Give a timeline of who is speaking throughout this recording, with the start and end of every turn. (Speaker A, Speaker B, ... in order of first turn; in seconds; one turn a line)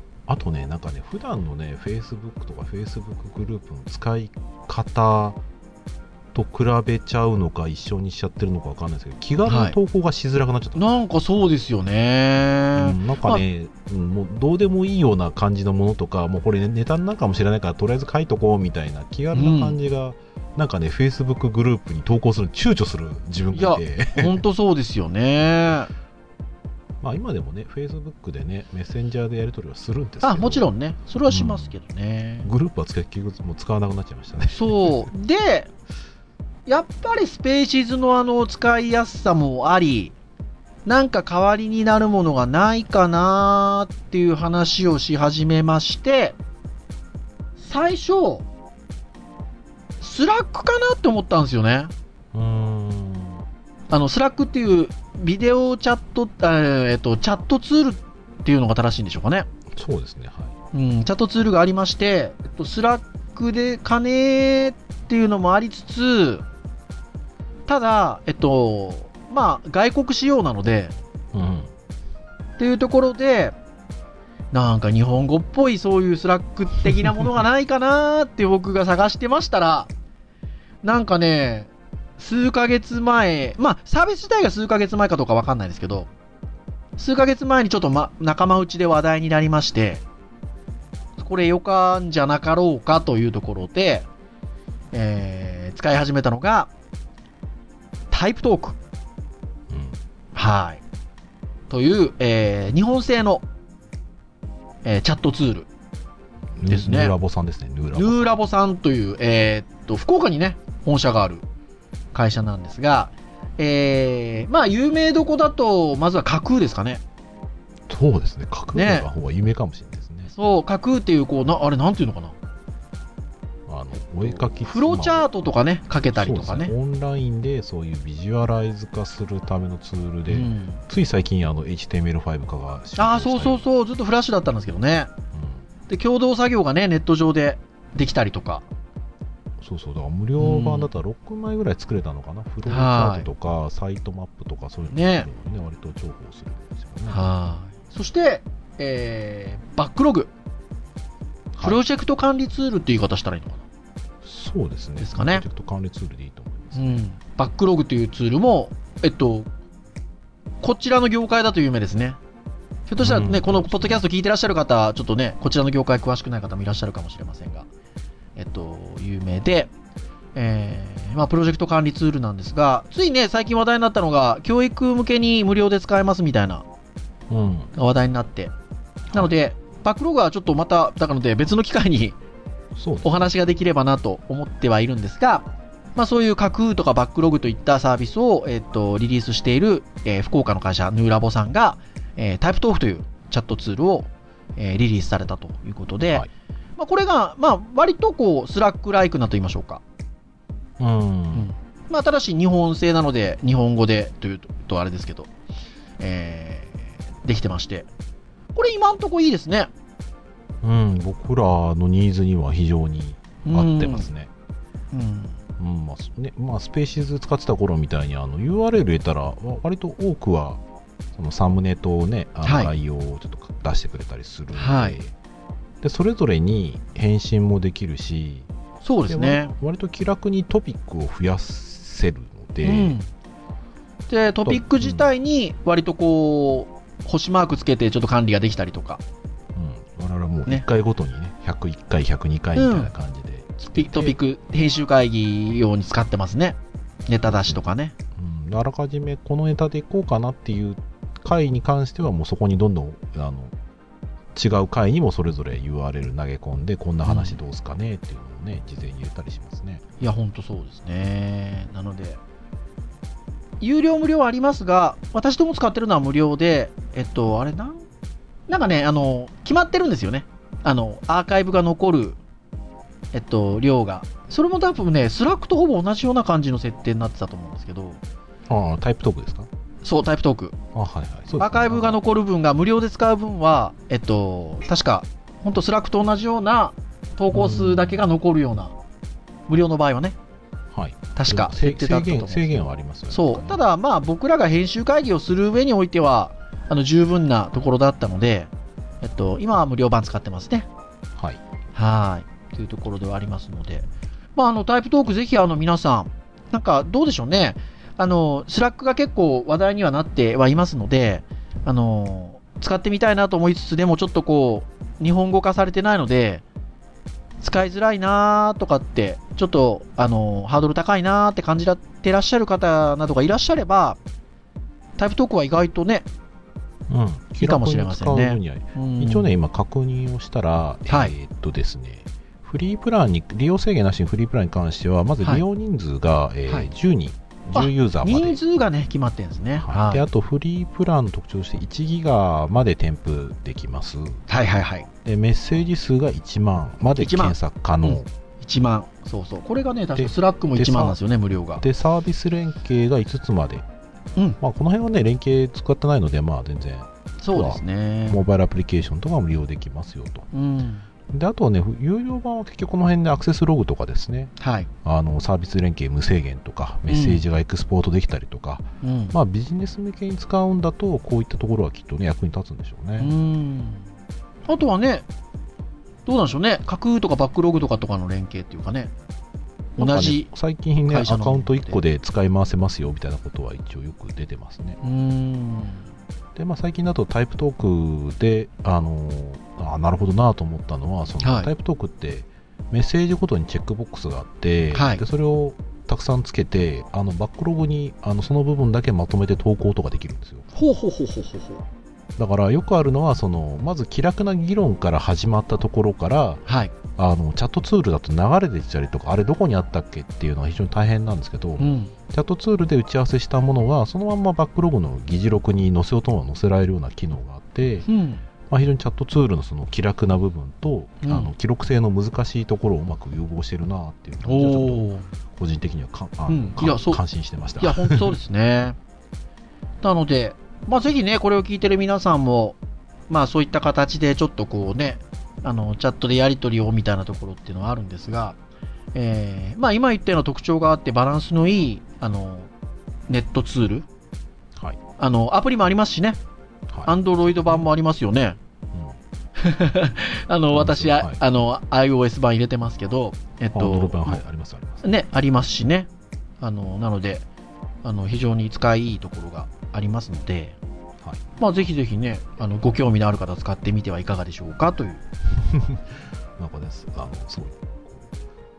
Speaker A: 0.3-5.4
Speaker A: 6.3-10.9
Speaker B: 9.4-9.8
Speaker B: 10.8-13.4
Speaker A: 12.8-24.4
Speaker B: 19.3-19.8
Speaker B: 23.5-25.9
Speaker A: 27.0-30.7
Speaker B: 30.2-32.5
Speaker A: 31.3-31.7
Speaker A: 32.4-35.0
Speaker B: 34.5-35.7
Speaker B: 36.6-40.1
Speaker B: 40.9-46.4
Speaker B: 47.6-48.5
Speaker B: 50.0-51.9
Speaker A: 52.3-53.4
Speaker B: 53.9-59.5
Speaker A: 59.7-60.5
Speaker B: 60.7-66.4
Speaker B: 67.7-70.9
Speaker A: 71.3-71.7
Speaker B: 72.6-73.5
Speaker B: 74.5-79.9
Speaker B: 80.8-86.1
Speaker B: 87.0-90.0
Speaker B: 91.2-94.0
Speaker B: 94.9-96.7
Speaker B: 98.1-98.8
Speaker A: 99.7-100.0
Speaker B: 100.3-100.8
Speaker B: 101.7-103.4
Speaker B: 104.8-105.7
Speaker A: 106.6-108.4
Speaker B: 106.7-107.1
Speaker B: 107.9-111.4
Speaker B: 112.1-117.0
Speaker A: 117.9-120.3
Speaker B: 118.7-119.1
Speaker B: 120.3-122.3
Speaker A: 123.7-125.3
Speaker B: 124.2-126.7
Speaker A: 126.1-133.6
Speaker B: 130.3-130.8
Speaker B: 133.0-135.1
Speaker A: 135.3-135.6
Speaker B: 135.9-138.6
Speaker A: 139.6-147.3
Speaker B: 140.4-140.9
Speaker B: 142.7-143.3
Speaker B: 144.9-145.3
Speaker B: 147.1-150.3
Speaker A: 151.5-151.8
Speaker B: 151.6-153.6
Speaker A: 154.2-157.0
Speaker B: 155.0-155.4
Speaker B: 156.7-159.5
Speaker B: 160.6-162.2
Speaker B: 162.9-167.7
Speaker A: 163.0-164.0
Speaker B: 168.4-169.7
Speaker B: 170.3-176.6
Speaker A: 177.3-177.7
Speaker B: 177.7-178.5
Speaker B: 179.1-182.1
Speaker A: 182.7-183.3
Speaker B: 183.0-199.8
Speaker A: 200.8-201.5
Speaker B: 201.3-205.3
Speaker B: 206.0-207.9
Speaker B: 208.5-209.7
Speaker A: 210.6-214.3
Speaker B: 213.4-214.1
Speaker B: 214.9-215.4
Speaker A: 215.6-220.6
Speaker A: 221.1-225.1
Speaker B: 222.4-222.7
Speaker B: 224.5-225.0
Speaker A: 225.8-228.5
Speaker B: 228.8-229.5
Speaker A: 229.1-233.0
Speaker B: 232.6-233.1
Speaker B: 234.1-239.0
Speaker A: 234.4-235.1
Speaker A: 239.5-244.2
Speaker B: 242.6-242.9
Speaker B: 243.6-246.6
Speaker B: 247.1-247.9
Speaker A: 247.3-247.6
Speaker A: 248.1-253.5
Speaker A: 254.3-259.8
Speaker B: 257.0-257.4
Speaker B: 260.0-262.2
Speaker B: 263.6-267.8
Speaker B: 268.5-272.2
Speaker B: 273.1-278.0
Speaker A: 278.5-279.5
Speaker B: 279.8-280.6
Speaker A: 280.7-282.0
Speaker B: 281.4-288.7
Speaker A: 287.3-288.1
Speaker B: 289.5-290.1
Speaker A: 290.7-293.6
Speaker B: 291.1-298.5
Speaker B: 299.0-300.7
Speaker B: 301.7-316.4
Speaker B: 317.4-324.0
Speaker B: 325.0-326.1
Speaker A: 326.9-338.4
Speaker B: 327.4-329.3
Speaker B: 330.9-331.1
Speaker B: 337.5-340.0
Speaker A: 339.6-344.2
Speaker B: 344.3-344.9
Speaker A: 345.0-348.1
Speaker B: 347.0-351.6
Speaker A: 349.9-351.0
Speaker A: 351.6-353.6
Speaker A: 354.4-360.3
Speaker B: 357.2-358.2
Speaker B: 360.3-360.8
Speaker A: 361.1-373.1
Speaker B: 364.4-364.7
Speaker B: 366.9-367.2
Speaker B: 368.8-369.1
Speaker B: 373.0-373.8
Speaker B: 374.5-375.0
Speaker B: 376.1-378.9
Speaker B: 379.8-380.3
Speaker A: 379.8-384.8
Speaker B: 380.9-381.8
Speaker B: 384.8-385.8
Speaker A: 386.3-400.5
Speaker B: 391.2-391.5
Speaker B: 394.7-395.0
Speaker B: 400.5-401.6
Speaker A: 402.2-406.4
Speaker B: 406.5-406.7
Speaker A: 406.9-417.9
Speaker B: 411.6-411.9
Speaker B: 417.9-418.2
Speaker A: 418.5-428.1
Speaker B: 421.0-421.3
Speaker B: 424.2-425.1
Speaker B: 426.3-427.0
Speaker B: 427.6-428.8
Speaker B: 429.8-432.6
Speaker B: 433.1-438.4
Speaker B: 438.9-442.5
Speaker B: 443.1-443.9
Speaker B: 445.0-446.2
Speaker A: 446.7-447.7
Speaker B: 446.9-448.4
Speaker B: 449.4-454.2
Speaker A: 450.5-451.2
Speaker A: 453.5-454.8
Speaker B: 454.8-455.9
Speaker B: 456.4-457.2
Speaker B: 457.8-460.6
Speaker B: 461.4-465.0
Speaker A: 465.4-468.1